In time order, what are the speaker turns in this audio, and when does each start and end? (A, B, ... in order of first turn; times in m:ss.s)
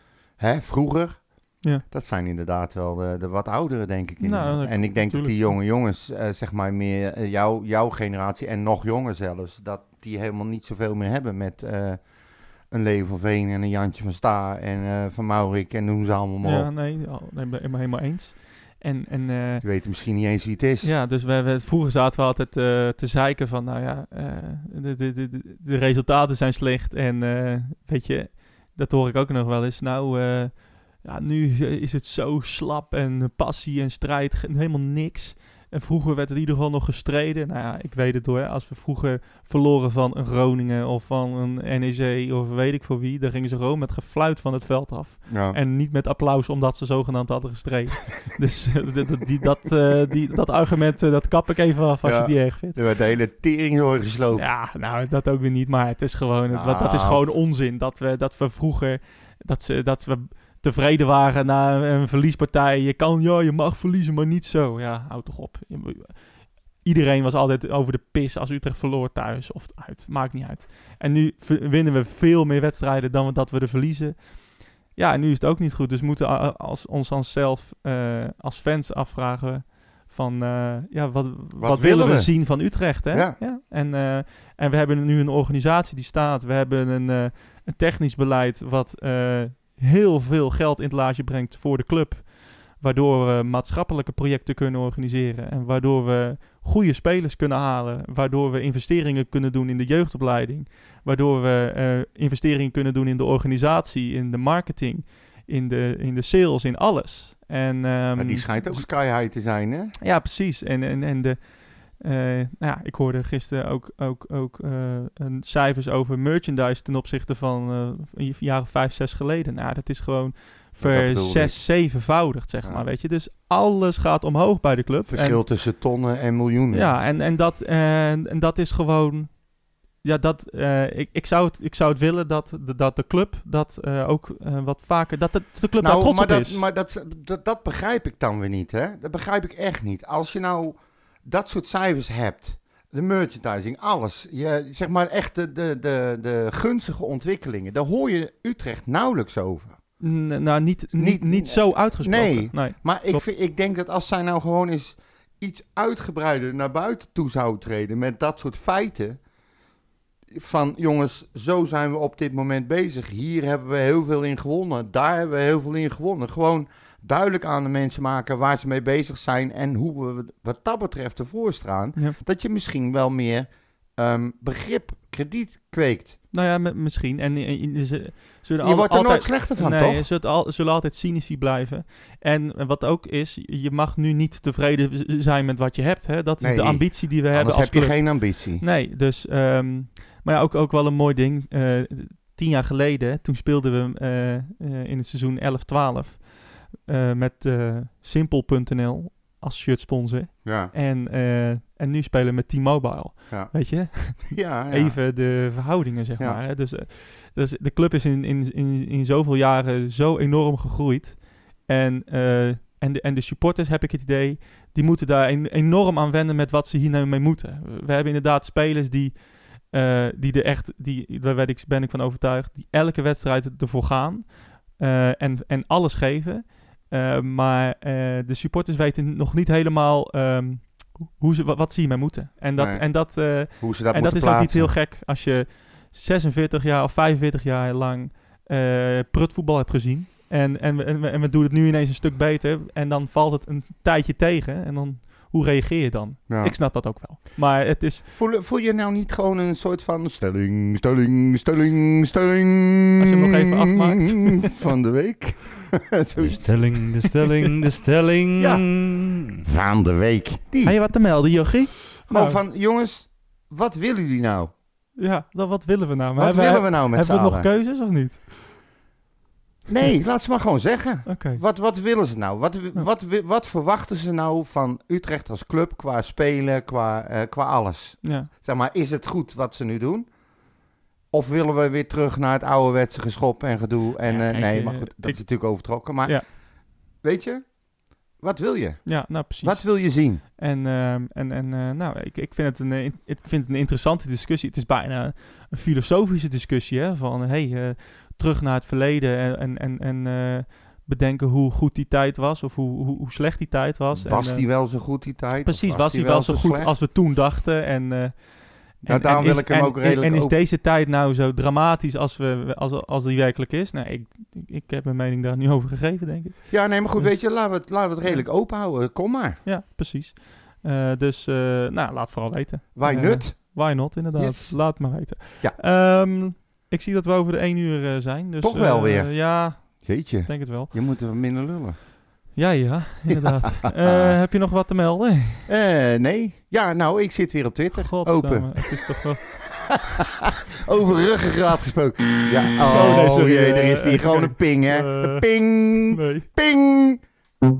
0:00.4-0:16.7 A
0:04.2-0:05.6 B
0:16.4-0:19.6 B
0:19.6-0:20.9 A
0:20.8-0:52.8 B
0:45.3-0:45.6 A
0:52.0-0:54.5 A
0:54.3-1:48.8 B
0:56.5-0:57.3 A
1:21.6-1:23.4 A
1:48.2-1:49.9 A
1:50.0-2:05.4 B
2:00.8-2:01.6 A
2:05.1-2:07.0 A
2:06.7-2:16.6 B
2:15.8-2:29.8 A
2:30.0-2:33.3 B
2:30.9-2:39.2 A
2:40.3-2:56.2 A
2:56.3-4:08.1 B
2:58.6-3:00.1 A
3:06.4-3:08.6 A
3:20.4-3:20.7 A
3:23.3-3:25.5 A
3:52.6-3:54.8 A
4:06.3-4:06.8 A
4:08.1-4:16.8 A
4:13.0-4:14.6 B
4:16.2-4:19.4 C
4:18.4-4:20.8 A
4:20.6-4:22.4 B
4:22.1-4:24.5 A
4:25.0-4:28.3 B
4:26.2-4:27.5 A
4:29.7-4:40.1 A
4:31.1-4:31.4 B
4:38.0-4:38.3 B
4:41.1-4:50.2 A
4:44.0-4:46.3 B
4:48.8-5:18.3 B
5:04.0-5:06.8 A
5:08.8-5:10.4 A
5:16.5-5:19.4 A
5:19.4-5:30.7 B
5:22.7-5:25.6 A
5:28.4-5:31.8 A
5:32.3-5:35.5 B
5:33.1-5:34.2 A
5:35.5-5:38.8 A
5:37.7-5:39.3 B
5:39.4-5:47.0 A
5:42.7-5:46.3 B